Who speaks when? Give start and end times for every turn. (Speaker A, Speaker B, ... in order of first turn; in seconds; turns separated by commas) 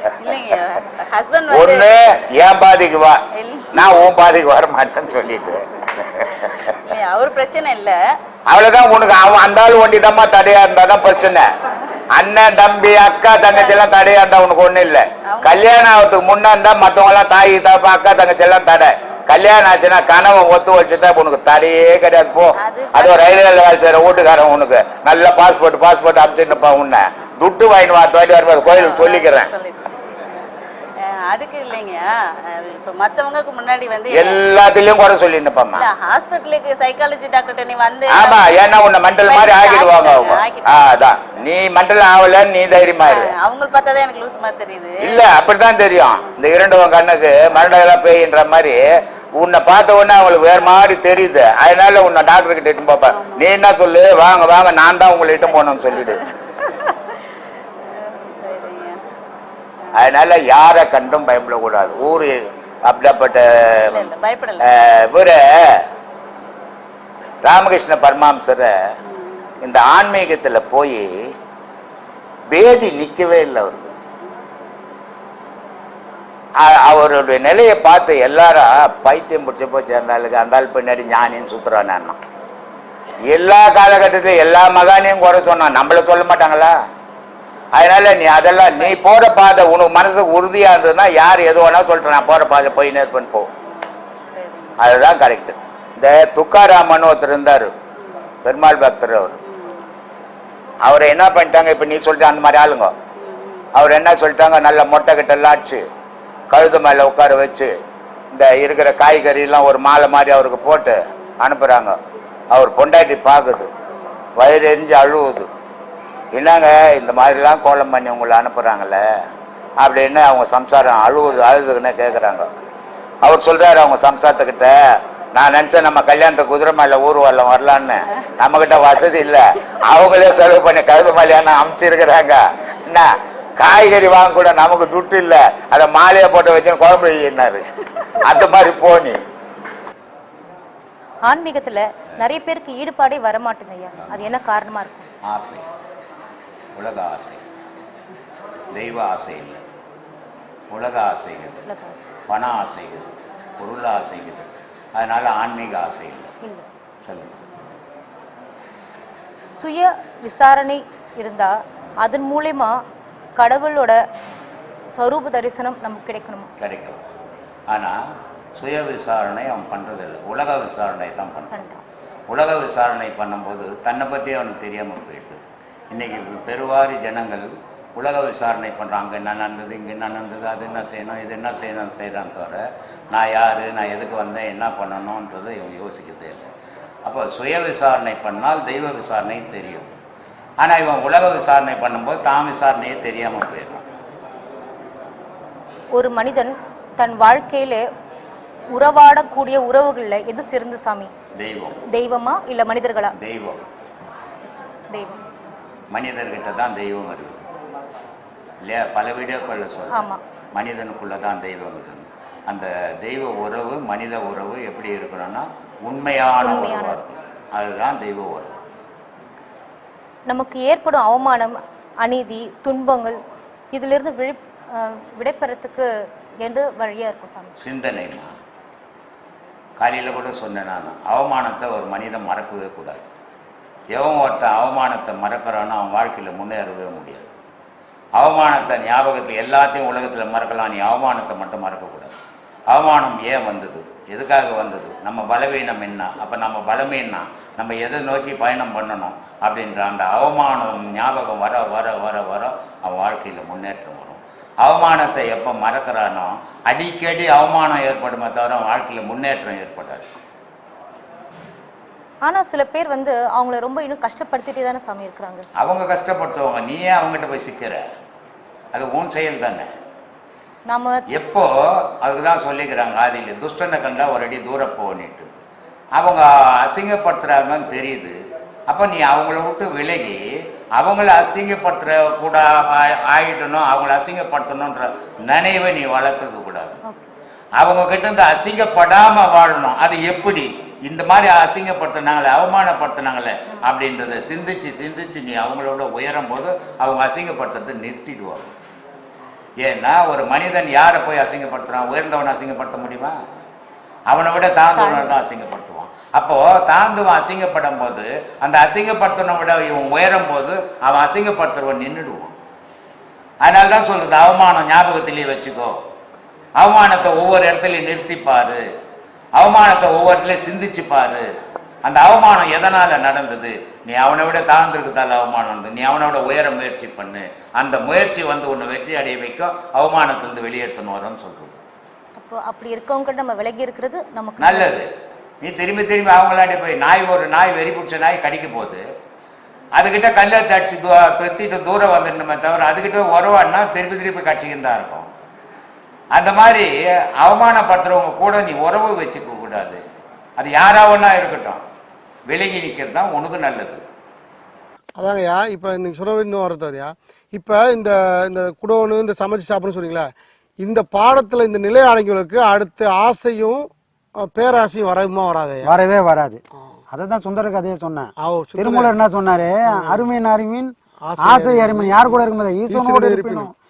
Speaker A: 0.2-1.9, Speaker B: 1.5-3.2, Speaker A: 3.4-3.8, Speaker B: 3.7-6.5, Speaker A: 6.8-8.0, Speaker B: 8.5-11.5, Speaker B: 12.2-29.5, Speaker A: 15.3-15.6, Speaker A: 22.6-23.5, Speaker A: 28.7-29.8, Speaker A: 31.1-34.4, Speaker B: 34.1-35.8, Speaker A: 35.8-38.4, Speaker B: 38.1-43.3, Speaker A: 39.3-40.8, Speaker A: 43.1-45.0, Speaker B: 45.0-48.8, Speaker B: 49.4-56.2, Speaker A: 53.1-53.4, Speaker A: 56.7-57.0, Speaker A: 57.8-59.0, Speaker B: 60.0-64.1, Speaker A: 63.9-64.7, Speaker B: 64.6-65.8, Speaker B: 67.5-68.7, Speaker A: 69.1-69.5, Speaker B: 69.6-71.1, Speaker B: 72.5-73.9, Speaker B: 76.6-82.2, Speaker B: 83.3-86.8, Speaker B: 87.8-93.5, Speaker A: 94.3-94.8, Speaker B: 94.8-97.7, Speaker A: 98.0-98.3, Speaker B: 98.4-99.4, Speaker A: 99.5-99.9, Speaker B: 100.8-102.9, Speaker A: 103.2-103.7, Speaker B: 103.8-105.8, Speaker B: 106.5-107.7, Speaker B: 108.3-112.0, Speaker B: 112.5-113.7, Speaker B: 114.4-115.5, Speaker B: 116.3-119.0, Speaker B: 119.8-122.5, Speaker B: 123.2-124.8, Speaker B: 125.3-137.7, Speaker B: 138.2-139.2, Speaker C: 141.3-145.1, Speaker B: 144.0-144.3, Speaker B: 145.3-145.7, Speaker B: 146.8-147.4, Speaker B: 148.7-149.6, Speaker B: 150.7-151.7, Speaker C: 151.7-152.1, Speaker B: 152.3-156.3, Speaker C: 156.4-156.7, Speaker B: 157.1-157.3, Speaker C: 159.6-162.7, Speaker C: 163.4-164.0, Speaker C: 165.0-166.5, Speaker B: 166.6-167.0, Speaker B: 167.7-168.0, Speaker B: 168.6-171.5, Speaker C: 171.5-171.8, Speaker B: 172.3-175.4, Speaker B: 175.9-182.6, Speaker B: 183.1-186.5, Speaker B: 187.1-189.9, Speaker B: 190.6-193.8, Speaker C: 195.9-197.8, Speaker C: 198.7-201.1, Speaker B: 201.4-201.8, Speaker C: 201.9-203.2, Speaker B: 203.2-203.6, Speaker C: 204.9-205.2, Speaker B: 205.9-207.5, Speaker B: 208.6-218.5, Speaker C: 209.9-210.2, Speaker C: 216.4-217.0, Speaker C: 220.3-223.2, Speaker C: 223.7-225.9, Speaker C: 226.4-227.5, Speaker B: 227.6-228.3, Speaker B: 229.8-233.1, Speaker B: 233.9-237.3, Speaker B: 238.2-242.2, Speaker B: 242.7-260.1, Speaker C: 262.2-265.5, Speaker B: 265.6-267.8, Speaker B: 268.7-269.7, Speaker C: 270.7-271.1, Speaker B: 271.1-275.3, Speaker B: 276.0-278.2, Speaker B: 278.7-280.2, Speaker B: 280.8-286.8, Speaker C: 286.8-287.1, Speaker B: 287.6-298.5, Speaker B: 299.6-303.2, Speaker B: 304.1-312.4, Speaker C: 304.8-305.2, Speaker B: 313.4-315.8, Speaker B: 316.6-318.6, Speaker B: 319.4-321.3, Speaker B: 321.8-331.6, Speaker C: 332.2-334.7, Speaker B: 334.4-334.9, Speaker B: 335.4-338.8, Speaker B: 339.8-345.1, Speaker B: 346.1-349.8, Speaker B: 350.4-351.6, Speaker B: 352.3-353.8, Speaker D: 355.0-365.7, Speaker E: 365.6-366.4, Speaker E: 366.9-373.5, Speaker D: 368.2-368.9, Speaker D: 369.7-370.0, Speaker D: 371.0-372.2, Speaker D: 372.7-373.5